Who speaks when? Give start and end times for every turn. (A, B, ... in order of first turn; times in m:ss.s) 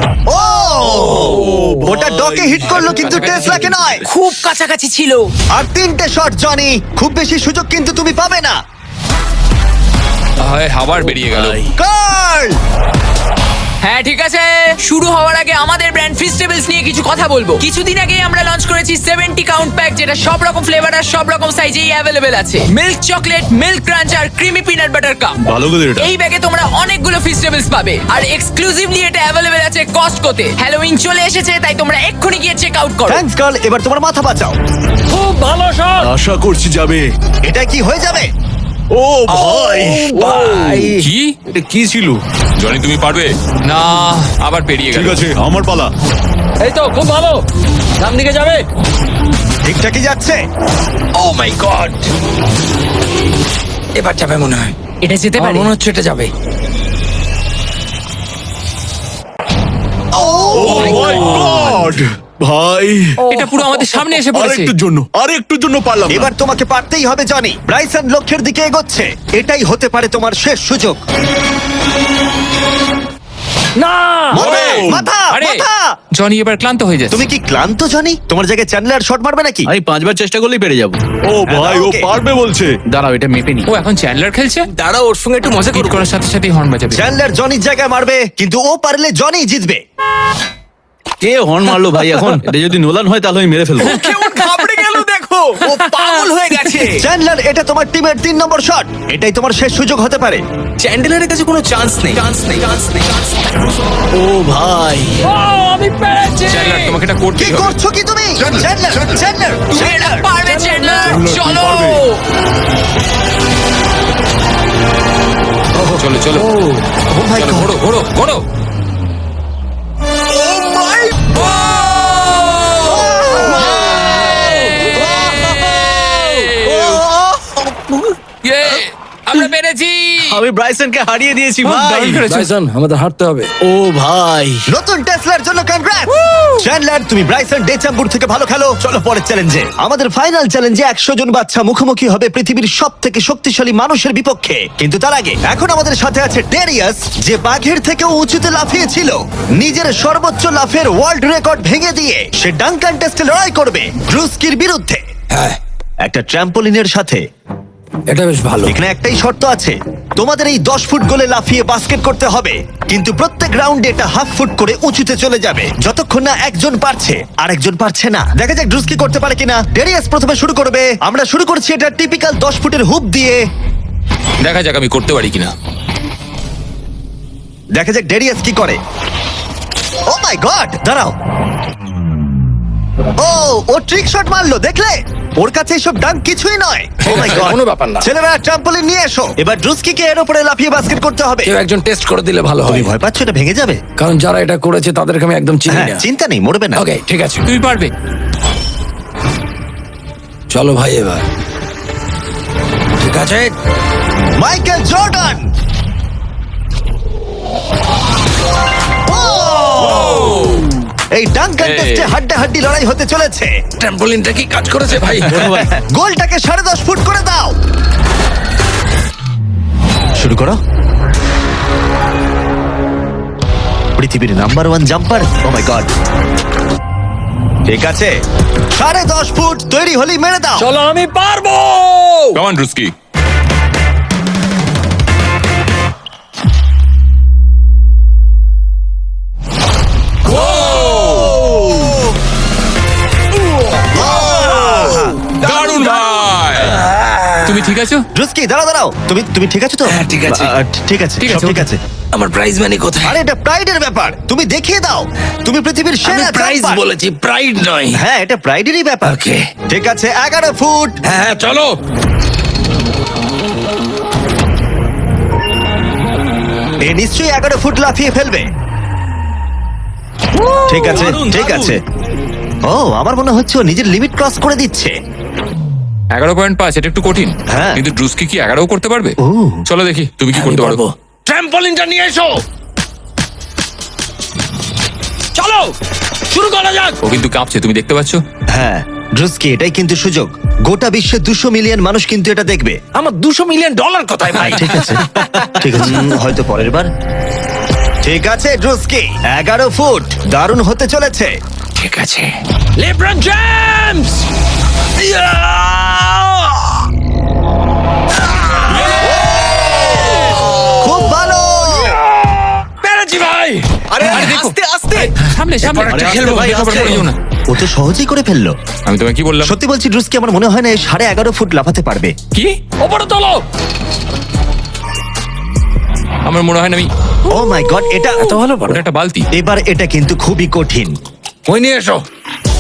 0:00.3-0:04.0 A
0:01.3-0:02.6 B
0:02.7-0:03.7 C
0:04.1-0:05.3 D
0:05.5-0:08.6 A
0:10.4-0:11.6 C
0:11.2-0:11.7 E
0:11.8-0:12.6 A
0:13.8-0:25.3 D
0:25.4-0:26.1 B
0:26.0-0:33.2 D
0:33.1-0:34.6 A
0:35.1-0:36.1 F
0:36.0-0:37.0 B
0:37.5-0:38.3 A
0:38.9-0:40.9 B
0:39.6-0:41.0 F
0:41.0-0:41.4 C
0:41.5-0:42.2 B
0:42.6-0:45.3 C
0:44.9-0:45.9 B
0:46.6-0:47.4 F
0:48.0-0:48.6 F
0:49.7-0:50.4 A
0:51.2-0:52.0 F
0:53.9-0:54.8 F
0:55.0-0:55.7 D
0:55.4-0:56.3 F
1:00.2-1:06.3 B
1:00.6-1:01.7 F
1:03.3-1:04.7 C
1:06.1-1:11.0 A
1:13.8-1:14.6 F
1:14.3-1:15.9 A
1:14.4-1:15.6 C
1:14.4-1:15.0 B
1:16.2-1:17.2 C
1:17.1-1:19.7 A
1:19.7-1:21.0 E
1:21.2-1:22.8 B
1:21.5-1:22.1 A
1:22.9-1:23.7 E
1:23.7-1:24.7 C
1:24.7-1:26.1 G
1:25.7-1:27.0 C
1:26.9-1:29.8 A
1:31.2-1:34.0 E
1:33.9-1:35.0 B
1:34.1-1:36.9 G
1:34.2-1:34.6 C
1:35.9-1:36.2 C
1:37.0-1:40.4 A
1:40.8-1:43.4 G
1:44.1-1:45.2 E
1:45.2-1:47.0 F
1:46.5-1:47.7 C
1:47.4-1:50.2 A
1:49.7-1:52.2 D
1:50.4-1:51.2 F
1:51.0-1:52.0 B
1:55.8-1:56.0 A
1:56.0-1:56.6 C
1:57.1-1:57.7 A
1:57.3-1:58.4 C
2:00.4-2:01.1 B
2:01.4-2:02.9 C
2:02.9-2:03.5 A
2:03.3-2:04.8 E
2:03.8-2:07.0 C
2:06.6-2:08.1 E
2:08.4-2:10.4 C
2:10.2-2:12.2 E
2:11.6-2:12.5 C
2:12.3-2:13.5 F
2:13.6-2:14.6 E
2:14.7-2:35.0 A
2:35.3-2:35.6 F
2:36.0-2:37.2 A
2:38.1-2:38.7 F
2:38.7-2:53.4 A
2:54.4-2:55.5 C
2:57.8-2:58.8 A
3:00.1-3:01.1 A
3:03.2-3:11.5 A
3:07.0-3:08.1 F
3:11.4-3:12.9 F
3:12.7-3:13.8 A
3:14.0-3:16.0 F
3:15.7-3:16.8 A
3:16.7-3:17.5 F
3:17.4-3:17.9 C
3:20.5-3:21.2 F
3:23.0-3:23.5 F
3:24.4-3:25.4 A
3:29.1-3:30.1 A
3:29.8-3:30.6 C
3:31.1-3:33.5 A
3:31.6-3:32.2 C
3:33.8-3:35.5 F
3:35.2-3:35.7 E
3:35.4-3:37.5 A
3:40.2-3:40.6 A
3:44.0-3:45.9 A
3:47.7-3:48.1 A
3:48.7-3:50.7 A
3:50.6-3:52.4 F
3:52.3-3:52.9 C
4:00.3-4:01.4 C
4:03.9-4:05.2 A
4:05.4-4:06.8 C
4:05.6-4:06.0 F
4:06.5-4:07.8 F
4:07.4-4:08.0 C
4:08.1-4:11.8 A
4:09.9-4:10.5 F
4:11.2-4:11.7 C
4:12.1-4:13.2 F
4:13.0-4:16.8 A
4:16.0-4:18.0 F
4:17.9-4:19.2 A
4:19.0-4:19.5 F
4:19.7-4:21.0 A
4:21.0-4:21.8 F
4:26.9-4:28.5 A
4:30.5-4:31.8 E
4:30.7-4:31.8 A
4:32.6-4:34.9 A
4:36.1-4:39.1 C
4:37.5-4:37.8 A
4:39.2-4:39.6 A
4:39.7-4:40.8 C
4:40.3-4:42.3 F
4:45.4-4:45.7 F
4:46.3-4:47.0 F
4:47.0-4:48.2 C
4:48.5-4:52.8 A
4:52.9-4:56.2 F
4:54.5-4:56.9 A
4:58.0-5:01.3 A
5:01.8-5:04.2 F
5:04.9-5:06.8 F
5:08.3-5:10.4 F
5:08.7-5:09.1 C
5:09.1-5:09.4 A
5:10.8-5:12.0 A
5:11.8-5:14.4 F
5:13.9-5:15.1 G
5:14.0-5:17.2 C
5:15.6-5:17.0 F
5:15.9-5:17.0 E
5:17.5-5:18.6 A
5:18.8-5:19.5 C
5:19.4-5:22.1 A
5:22.8-5:23.4 F
5:26.2-5:26.9 C
5:27.3-5:28.3 A
5:28.1-5:28.8 F
5:28.6-5:29.3 C
5:29.3-5:30.9 A
5:31.5-5:32.0 F